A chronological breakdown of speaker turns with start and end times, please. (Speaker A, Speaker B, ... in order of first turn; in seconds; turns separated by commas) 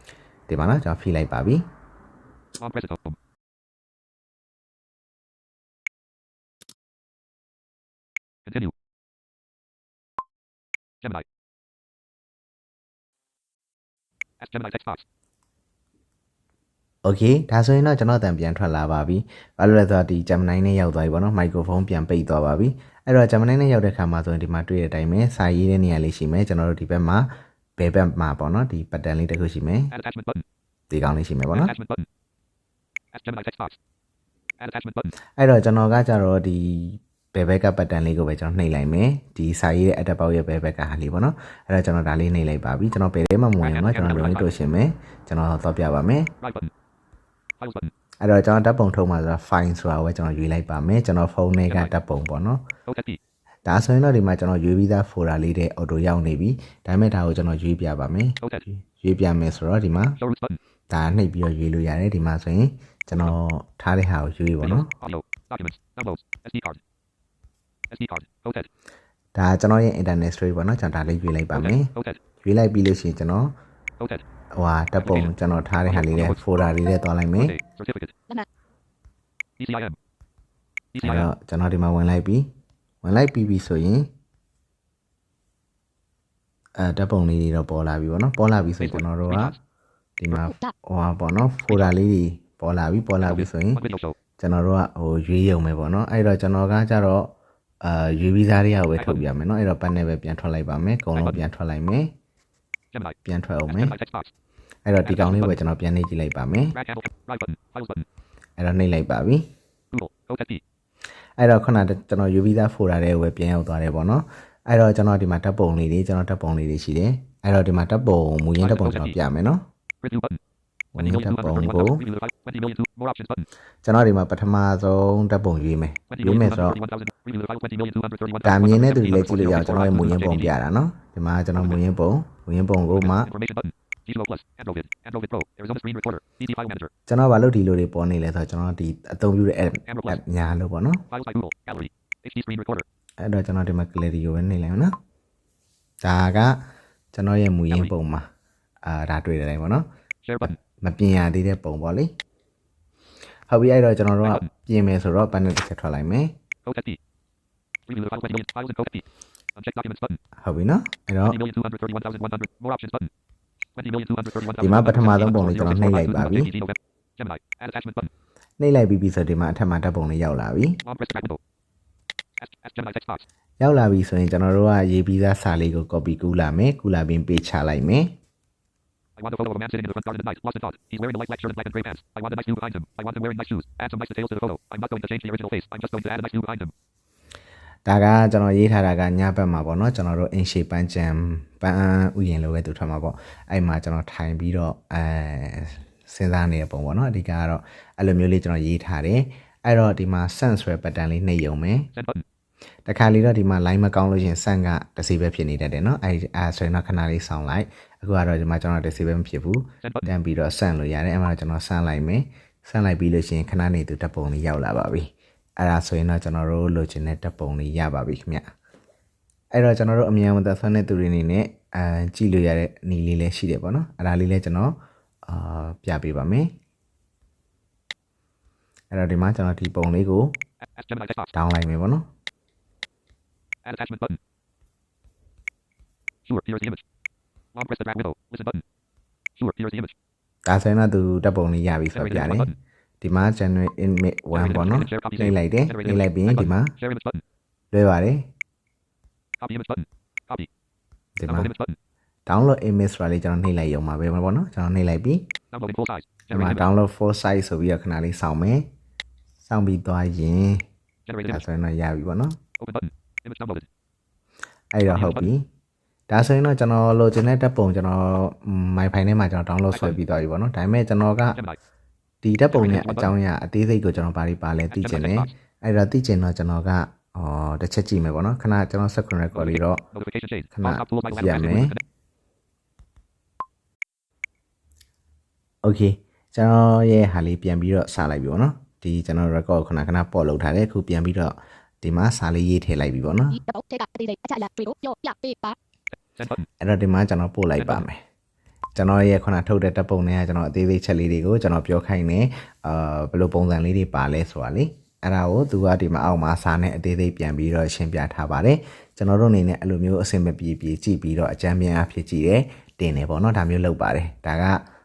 Speaker A: 0.5-1.7, Speaker B: 2.6-3.2, Speaker B: 8.5-8.7, Speaker B: 14.4-15.0, Speaker A: 17.0-29.9, Speaker B: 29.9-30.4, Speaker A: 30.9-31.7, Speaker B: 31.5-32.1, Speaker B: 33.1-33.8, Speaker B: 34.6-35.1, Speaker A: 35.4-46.3, Speaker B: 43.6-44.5, Speaker B: 46.4-46.7, Speaker B: 47.6-47.9, Speaker A: 48.2-52.6, Speaker B: 52.9-53.2, Speaker A: 53.6-58.4, Speaker A: 58.9-60.2, Speaker B: 60.2-60.6, Speaker A: 60.9-64.9, Speaker B: 64.6-66.8, Speaker B: 67.9-68.7, Speaker A: 69.3-71.9, Speaker B: 71.5-72.2, Speaker A: 72.4-73.5, Speaker B: 74.0-74.2, Speaker A: 74.5-77.5, Speaker B: 75.0-75.3, Speaker B: 75.9-76.4, Speaker B: 77.4-78.2, Speaker B: 79.6-80.0, Speaker B: 80.9-81.3, Speaker A: 81.0-82.5, Speaker A: 83.0-84.1, Speaker A: 86.8-89.5, Speaker B: 88.8-89.6, Speaker A: 90.2-93.8, Speaker C: 90.4-90.7, Speaker B: 93.2-94.2, Speaker A: 94.4-102.1, Speaker B: 102.9-103.2, Speaker A: 103.3-104.0, Speaker B: 103.7-104.3, Speaker A: 104.9-106.8, Speaker B: 105.1-105.6, Speaker B: 106.7-108.1, Speaker A: 108.6-109.5, Speaker B: 109.9-110.6, Speaker A: 111.4-119.6, Speaker B: 118.6-119.2, Speaker B: 120.0-120.4, Speaker A: 121.0-122.0, Speaker B: 121.0-123.5, Speaker A: 123.8-126.8, Speaker B: 126.1-130.5, Speaker A: 128.4-133.3, Speaker B: 132.9-136.9, Speaker A: 137.1-141.0, Speaker B: 139.9-140.2, Speaker B: 141.1-142.8, Speaker A: 143.2-144.9, Speaker A: 146.0-148.3, Speaker A: 148.8-149.9, Speaker B: 150.2-150.6, Speaker A: 150.4-152.1, Speaker A: 153.5-156.3, Speaker B: 156.7-157.0, Speaker B: 157.9-160.2, Speaker A: 160.4-161.4, Speaker B: 161.2-163.1, Speaker B: 163.8-168.1, Speaker A: 164.6-166.5, Speaker A: 168.6-170.8, Speaker B: 170.8-171.4, Speaker B: 172.4-173.2, Speaker A: 173.6-178.1, Speaker B: 179.2-186.7, Speaker A: 187.9-201.9, Speaker B: 201.9-202.2, Speaker A: 202.8-218.5, Speaker B: 209.8-210.1, Speaker A: 219.5-226.5, Speaker A: 228.9-230.4, Speaker B: 230.7-231.3, Speaker A: 231.3-232.1, Speaker B: 233.7-234.2, Speaker B: 236.3-236.8, Speaker B: 237.6-238.6, Speaker B: 239.4-239.9, Speaker A: 240.5-242.5, Speaker B: 242.0-242.6, Speaker A: 243.0-246.7, Speaker B: 244.3-247.2, Speaker A: 247.7-248.3, Speaker B: 249.4-250.5, Speaker A: 251.2-251.5, Speaker B: 251.3-251.8, Speaker A: 252.3-255.3, Speaker B: 255.5-256.7, Speaker A: 256.3-258.7, Speaker A: 259.4-260.6, Speaker B: 261.1-261.4, Speaker A: 261.3-262.4, Speaker B: 262.6-263.7, Speaker A: 264.7-265.5, Speaker B: 264.9-265.3, Speaker A: 266.1-271.4, Speaker A: 272.2-279.8, Speaker B: 272.5-273.1, Speaker B: 274.7-275.3, Speaker B: 279.4-281.8, Speaker A: 280.5-281.8, Speaker A: 285.6-293.4, Speaker C: 293.3-295.6, Speaker B: 296.2-296.5, Speaker A: 296.6-298.0, Speaker A: 298.8-314.6